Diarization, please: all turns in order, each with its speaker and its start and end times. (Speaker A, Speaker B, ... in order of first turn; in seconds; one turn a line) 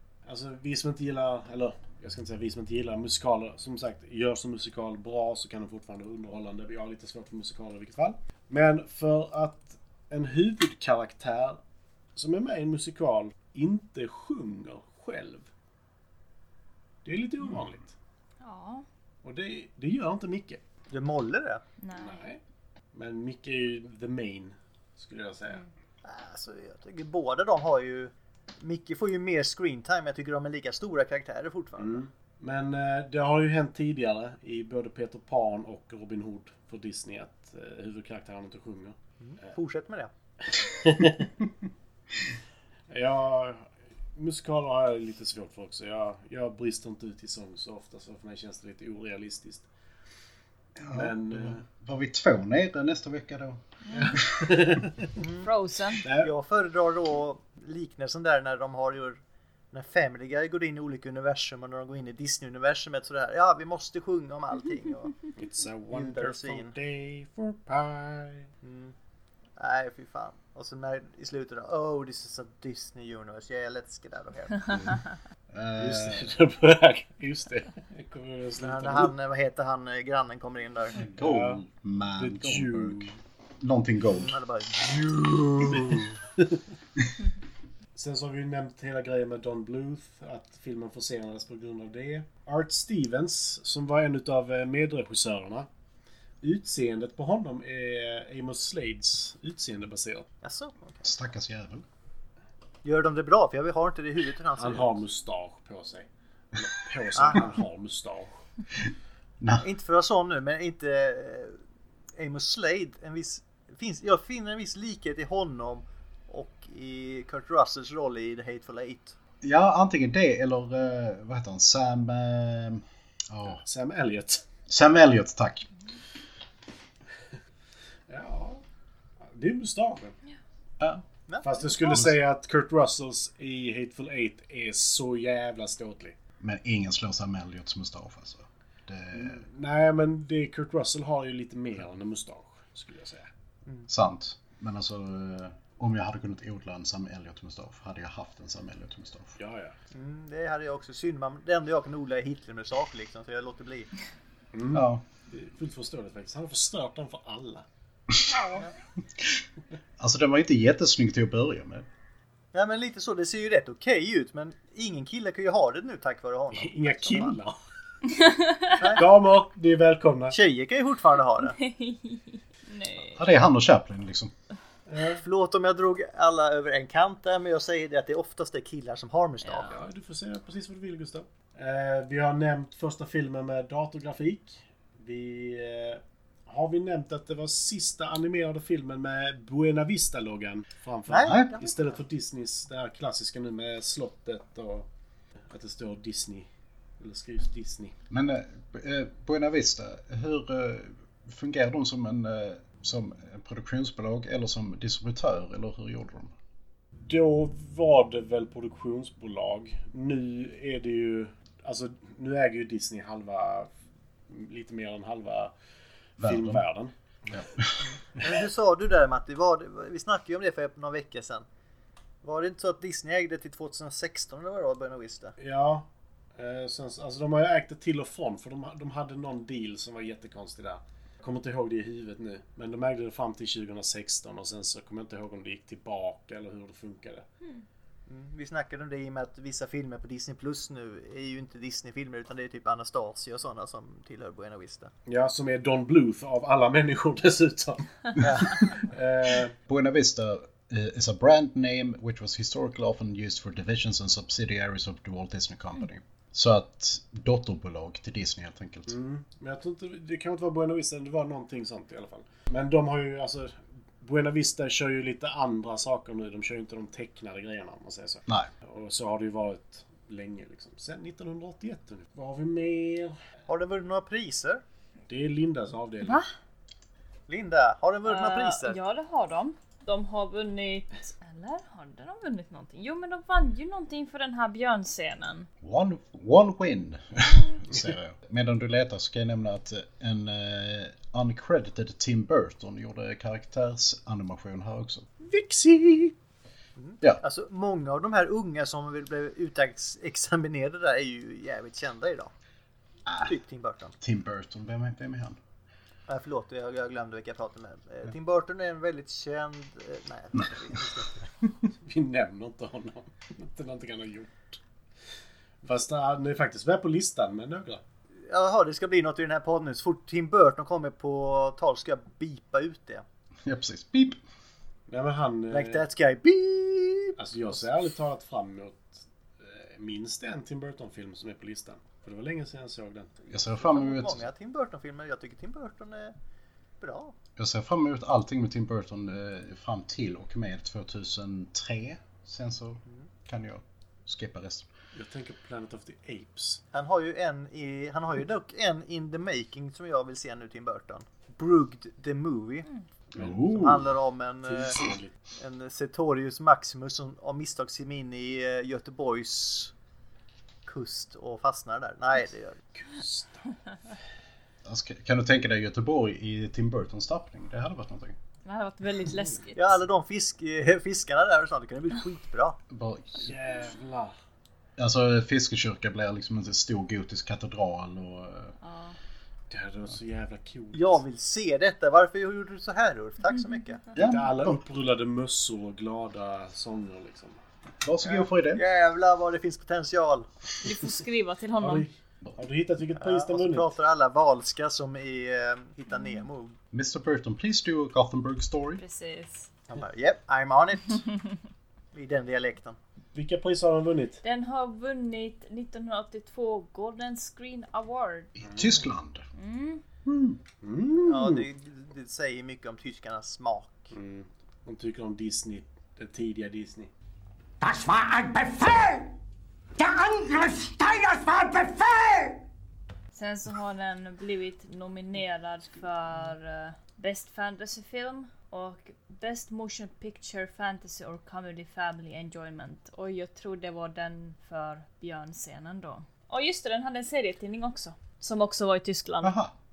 Speaker A: 0.2-11.6
Speaker A: 12.2-15.4
Speaker A: 17.0-17.9
Speaker B: 18.4-18.9
Speaker A: 19.2-20.6
Speaker C: 20.9-21.6
Speaker B: 21.8-22.2
Speaker A: 21.9-22.4
Speaker A: 22.9-25.6
Speaker C: 26.0-32.0
Speaker A: 31.8-38.9
Speaker C: 39.2-40.1
Speaker A: 40.5-41.3
Speaker A: 42.9-49.7
Speaker D: 50.8-53.6
Speaker A: 50.9-51.6
Speaker B: 53.8-54.2
Speaker A: 53.9-55.1
Speaker D: 54.2-54.6
Speaker C: 55.1-55.5
Speaker B: 55.4-56.0
Speaker A: 56.0-56.3
Speaker C: 56.1-59.2
Speaker C: 59.7-65.3
Speaker A: 65.3-68.5
Speaker C: 65.9-66.7
Speaker C: 68.6-68.9
Speaker C: 69.6-75.0
Speaker D: 75.5-76.3
Speaker A: 75.8-79.1
Speaker C: 78.6-81.0
Speaker D: 81.0-84.3
Speaker A: 81.2-81.6
Speaker A: 82.2-83.2
Speaker C: 84.1-84.9
Speaker A: 85.5-86.6
Speaker D: 85.6-86.0
Speaker A: 88.0-95.7
Speaker A: 96.4-100.3
Speaker C: 100.4-101.0
Speaker D: 101.0-101.8
Speaker C: 102.8-105.0
Speaker A: 104.5-108.4
Speaker C: 107.2-107.4
Speaker D: 109.4-109.6
Speaker C: 109.6-111.6
Speaker C: 112.2-119.2
Speaker D: 119.4-123.6
Speaker A: 123.6-124.4
Speaker D: 124.7-125.7
Speaker A: 128.1-128.6
Speaker A: 129.2-130.1
Speaker D: 130.8-131.0
Speaker C: 131.3-132.0
Speaker A: 131.4-136.1
Speaker D: 131.9-132.2
Speaker D: 136.4-139.4
Speaker A: 139.1-143.3
Speaker D: 143.9-149.4
Speaker A: 149.4-149.7
Speaker C: 149.9-153.9
Speaker A: 154.5-157.6
Speaker D: 154.7-155.0
Speaker B: 158.3-158.7
Speaker D: 160.0-161.8
Speaker C: 162.5-167.4
Speaker A: 166.5-167.6
Speaker B: 168.1-168.8
Speaker C: 168.8-169.1
Speaker A: 168.9-170.3
Speaker C: 170.3-171.6
Speaker B: 171.4-173.2
Speaker D: 173.1-174.3
Speaker A: 174.9-175.2
Speaker C: 175.2-179.8
Speaker B: 179.4-179.7
Speaker A: 179.7-194.8
Speaker C: 191.1-192.0
Speaker D: 191.2-191.6
Speaker A: 195.5-196.5
Speaker A: 197.0-197.9
Speaker D: 198.1-206.3
Speaker A: 207.1-213.7
Speaker A: 214.3-215.5
Speaker A: 216.2-217.4
Speaker D: 216.2-216.7
Speaker D: 217.3-217.8
Speaker C: 217.8-221.4
Speaker C: 222.2-225.3
Speaker A: 225.4-225.8
Speaker A: 226.4-237.2
Speaker C: 238.1-244.9
Speaker A: 245.1-249.5
Speaker C: 248.2-248.8
Speaker D: 249.7-259.0
Speaker A: 258.9-273.2
Speaker C: 273.5-274.6
Speaker A: 275.1-276.2
Speaker B: 276.0-276.3
Speaker C: 277.3-278.8
Speaker B: 278.0-285.5
Speaker D: 285.6-295.1
Speaker A: 295.2-296.1
Speaker C: 296.8-302.3
Speaker D: 303.1-303.4
Speaker C: 303.2-303.9
Speaker D: 304.0-305.4
Speaker C: 306.1-311.3
Speaker A: 311.9-314.6
Speaker A: 315.6-317.8
Speaker C: 318.3-323.0
Speaker D: 323.4-324.2
Speaker A: 324.9-325.8
Speaker C: 325.5-327.6
Speaker A: 327.2-333.4
Speaker D: 333.3-334.3
Speaker C: 333.6-336.1
Speaker C: 336.8-337.1
Speaker D: 337.4-344.7
Speaker A: 344.9-346.6
Speaker C: 346.7-352.7
Speaker D: 353.1-353.9
Speaker A: 353.2-353.5
Speaker C: 353.5-354.8
Speaker A: 354.4-355.1
Speaker C: 355.3-359.7
Speaker C: 360.6-362.6
Speaker A: 362.8-363.4
Speaker D: 364.6-368.1
Speaker B: 368.4-369.8
Speaker C: 369.6-372.6
Speaker D: 372.7-373.3
Speaker A: 373.2-374.1
Speaker D: 374.8-378.5
Speaker B: 378.6-379.0
Speaker A: 379.5-381.0
Speaker C: 380.7-383.8
Speaker B: 383.2-383.6
Speaker D: 383.9-384.6
Speaker A: 383.9-387.4
Speaker D: 387.8-388.6
Speaker C: 388.0-390.3
Speaker B: 390.6-391.9
Speaker A: 391.6-393.7
Speaker C: 392.9-396.6
Speaker B: 395.9-396.2
Speaker D: 396.7-398.8
Speaker B: 398.8-399.5
Speaker C: 399.7-401.1
Speaker C: 401.9-402.8
Speaker A: 403.1-404.2
Speaker B: 404.2-408.3
Speaker D: 408.4-409.2
Speaker B: 409.4-409.8
Speaker D: 410.1-410.4
Speaker A: 410.6-411.4
Speaker C: 411.0-413.9
Speaker A: 413.9-416.9
Speaker E: 417.6-419.1
Speaker E: 419.8-422.4
Speaker B: 423.1-439.4
Speaker D: 439.2-439.5